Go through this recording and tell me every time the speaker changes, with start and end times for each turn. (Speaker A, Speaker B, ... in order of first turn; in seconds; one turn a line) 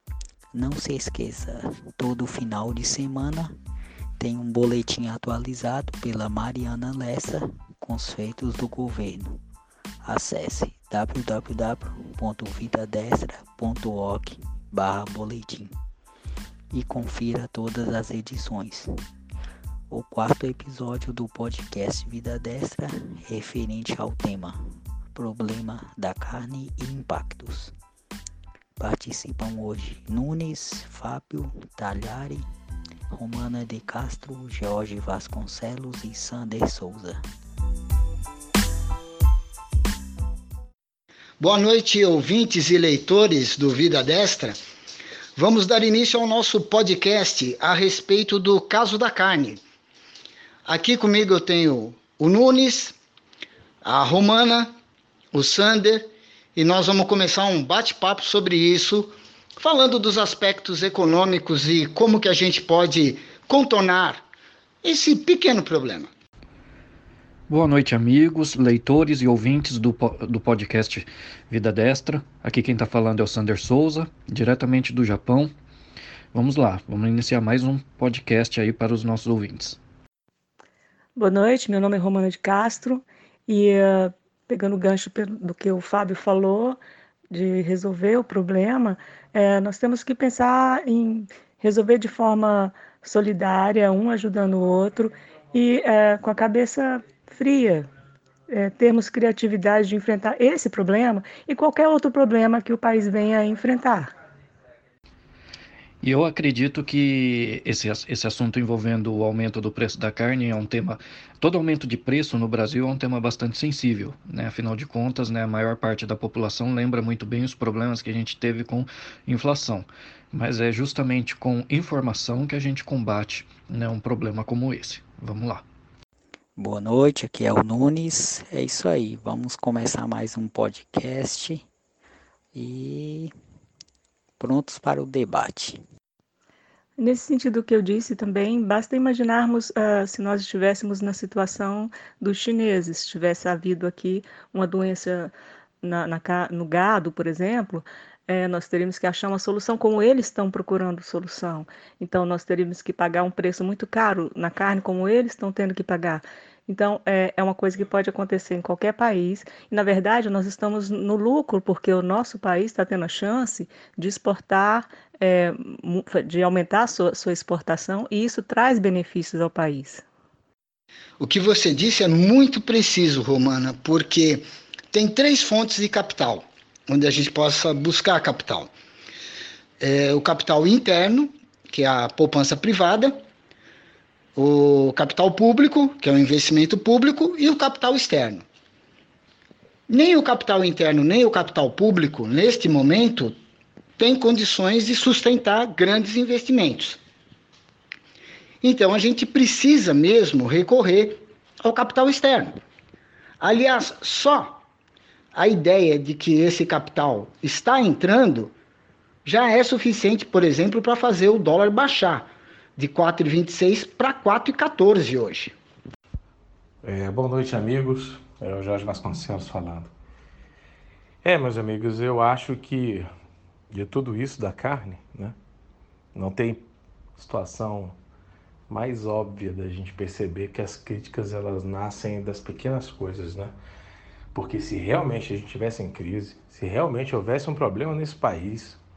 Speaker A: 0.5-3.5
Speaker A: 4.2-9.4
Speaker A: 10.1-15.8
Speaker A: 16.7-18.9
Speaker A: 19.9-24.6
Speaker A: 25.1-27.7
Speaker A: 28.8-32.4
Speaker A: 33.1-37.2
Speaker B: 41.4-44.6
Speaker B: 45.4-49.6
Speaker B: 50.7-53.0
Speaker B: 53.8-54.8
Speaker B: 55.3-64.2
Speaker B: 64.8-66.1
Speaker C: 67.5-75.5
Speaker C: 76.3-79.8
Speaker D: 81.2-86.8
Speaker D: 87.3-97.9
Speaker D: 98.5-104.1
Speaker C: 106.0-125.6
Speaker A: 126.6-131.7
Speaker A: 132.5-133.3
Speaker A: 134.4-135.8
Speaker D: 137.0-170.0
Speaker B: 171.2-178.7
Speaker B: 179.8-183.2
Speaker B: 184.4-188.4
Speaker B: 189.9-193.3
Speaker B: 194.0-197.0
Speaker B: 198.6-202.6
Speaker B: 203.4-204.6
Speaker B: 205.3-208.5
Speaker B: 209.2-215.6
Speaker E: 216.8-219.9
Speaker E: 221.2-223.1
Speaker E: 223.7-225.3
Speaker E: 226.1-226.6
Speaker E: 227.2-227.9
Speaker E: 228.7-233.5
Speaker E: 234.3-238.8